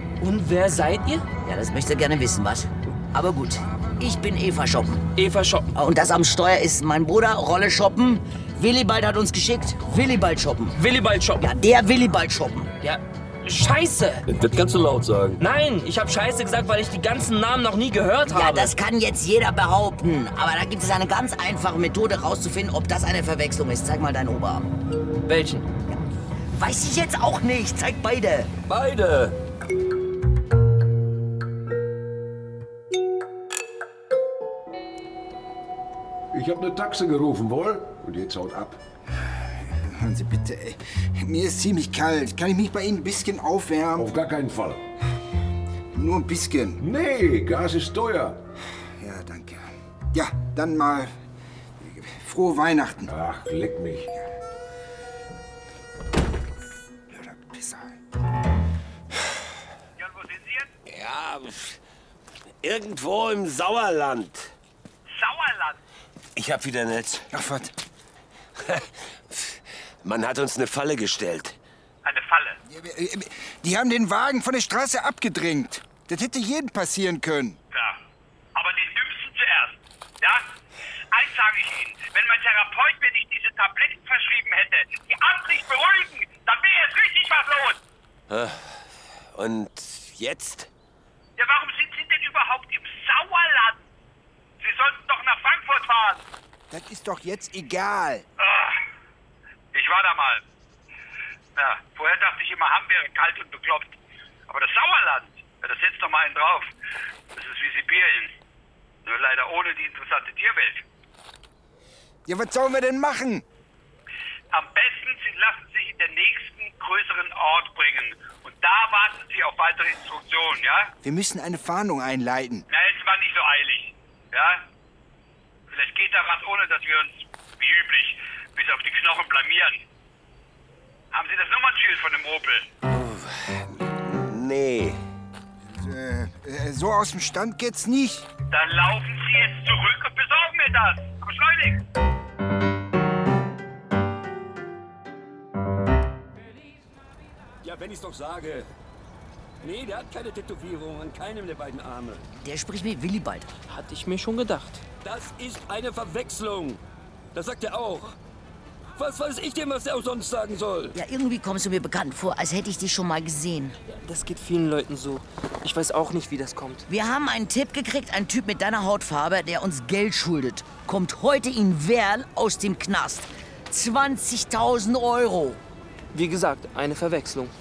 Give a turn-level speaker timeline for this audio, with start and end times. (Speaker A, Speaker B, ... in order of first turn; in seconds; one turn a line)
Speaker A: 0.2-1.2
Speaker B: 1.4-5.0
Speaker A: 5.2-5.7
Speaker B: 5.7-10.8
Speaker A: 10.7-11.5
Speaker B: 11.4-12.7
Speaker A: 12.8-14.2
Speaker C: 14.3-15.4
Speaker A: 15.4-18.7
Speaker B: 18.2-24.7
Speaker A: 25.2-25.7
Speaker B: 26.5-28.5
Speaker C: 28.7-29.4
Speaker D: 36.3-38.8
Speaker E: 39.7-44.1
Speaker D: 44.0-44.8
Speaker E: 45.9-46.8
Speaker D: 46.8-48.4
Speaker E: 49.0-51.1
Speaker E: 51.8-53.1
Speaker D: 53.1-54.1
Speaker E: 57.1-57.9
Speaker F: 60.0-60.7
Speaker G: 60.9-61.8
Speaker G: 62.6-64.5
Speaker F: 65.1-65.8
Speaker G: 66.3-67.3
Speaker E: 67.3-67.7
Speaker G: 68.6-71.6
Speaker F: 72.0-72.6
Speaker E: 72.7-77.6
Speaker F: 77.7-78.0
Speaker F: 78.5-80.5
Speaker F: 81.1-87.8
Speaker G: 88.3-90.7
Speaker F: 91.4-93.9
Speaker F: 94.6-96.2
Speaker E: 96.7-98.2
Speaker F: 98.4-98.8
Speaker F: 99.7-100.4
Speaker F: 101.5-104.0
Speaker F: 104.5-106.7
Speaker F: 107.3-108.3
Speaker F: 109.0-110.8
Speaker E: 112.3-113.4
Speaker F: 114.5-120.9
Speaker E: 121.0-122.6
Speaker F: 122.7-124.6
Speaker F: 125.7-129.8
Speaker F: 131.1-132.7
Speaker G: 132.9-135.0
Speaker E: 135.6-138.3
Speaker F: 138.5-141.8
Speaker C: 147.6-148.7
Speaker C: 149.6-152.2
Speaker B: 152.4-153.5
Speaker A: 153.7-154.8
Speaker C: 155.0-156.8
Speaker C: 157.3-158.1
Speaker C: 159.0-160.9
Speaker B: 160.9-163.8
Speaker A: 163.9-166.8
Speaker B: 166.9-175.6
Speaker A: 176.1-177.5